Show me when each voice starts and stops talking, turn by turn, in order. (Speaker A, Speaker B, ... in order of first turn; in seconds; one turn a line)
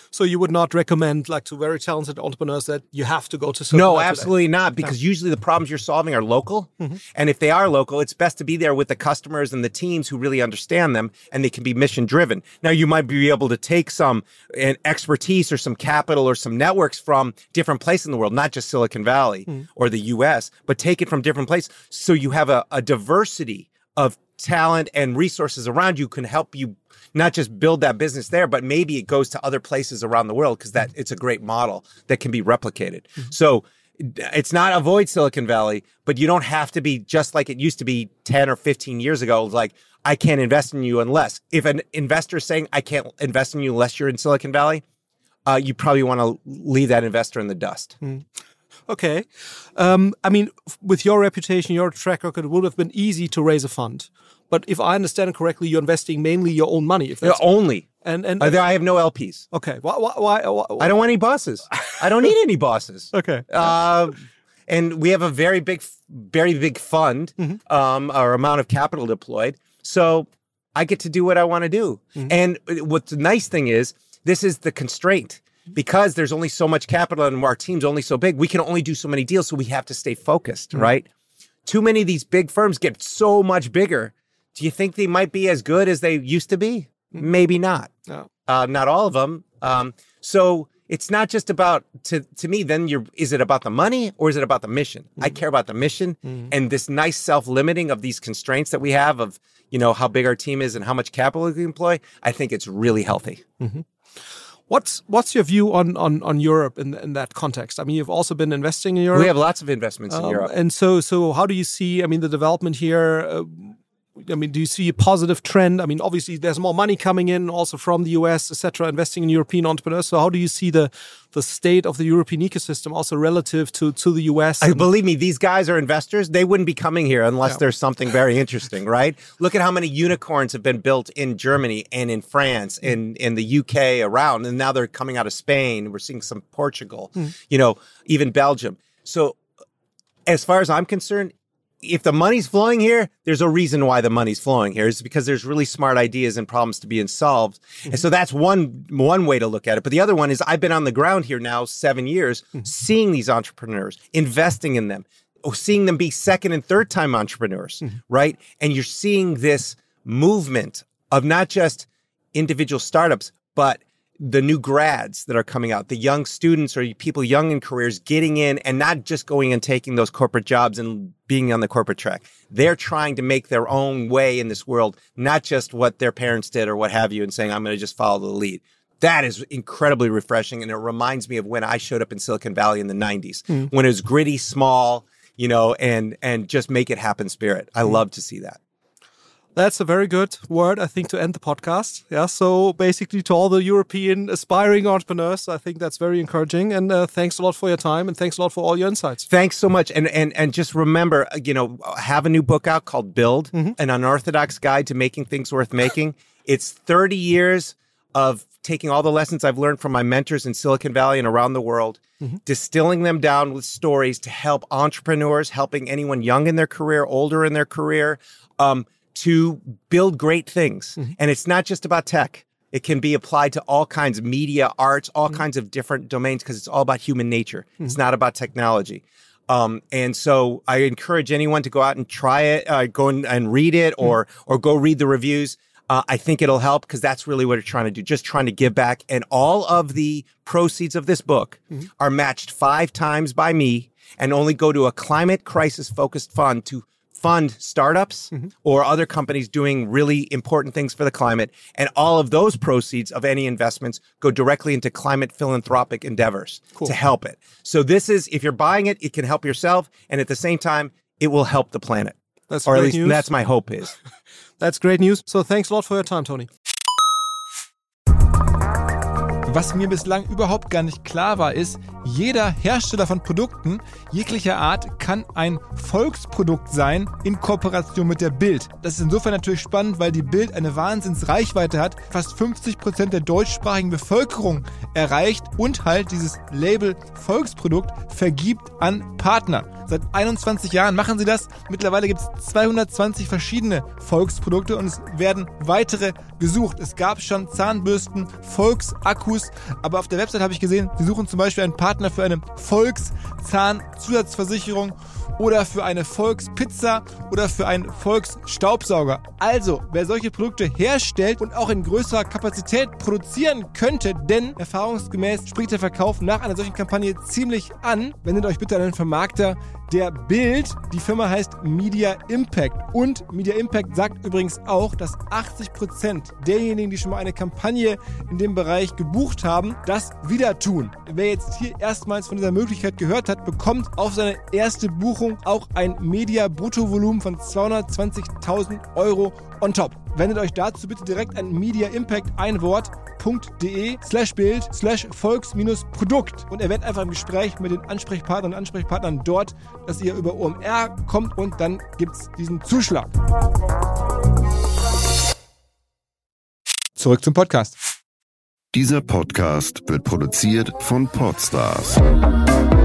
Speaker A: 0.1-4.3
Speaker B: 3.7-44.8
Speaker B: 45.5-48.0
Speaker A: 48.9-58.6
Speaker B: 57.2-57.9
Speaker B: 58.4-59.4
Speaker A: 59.5-61.0
Speaker B: 60.8-81.1
Speaker A: 61.7-62.0
Speaker A: 63.1-63.7
Speaker B: 81.7-87.9
Speaker B: 88.5-103.4
Speaker A: 103.6-103.8
Speaker A: 104.7-109.3
Speaker B: 109.1-110.5
Speaker A: 110.1-124.9
Speaker B: 124.6-139.4
Speaker B: 140.3-188.6
Speaker A: 189.6-199.3
Speaker B: 199.3-262.1
Speaker A: 262.5-263.3
Speaker B: 262.7-264.0
Speaker A: 264.6-266.5
Speaker C: 269.5-353.1
Speaker C: 357.0-357.8
Speaker D: 358.7-362.1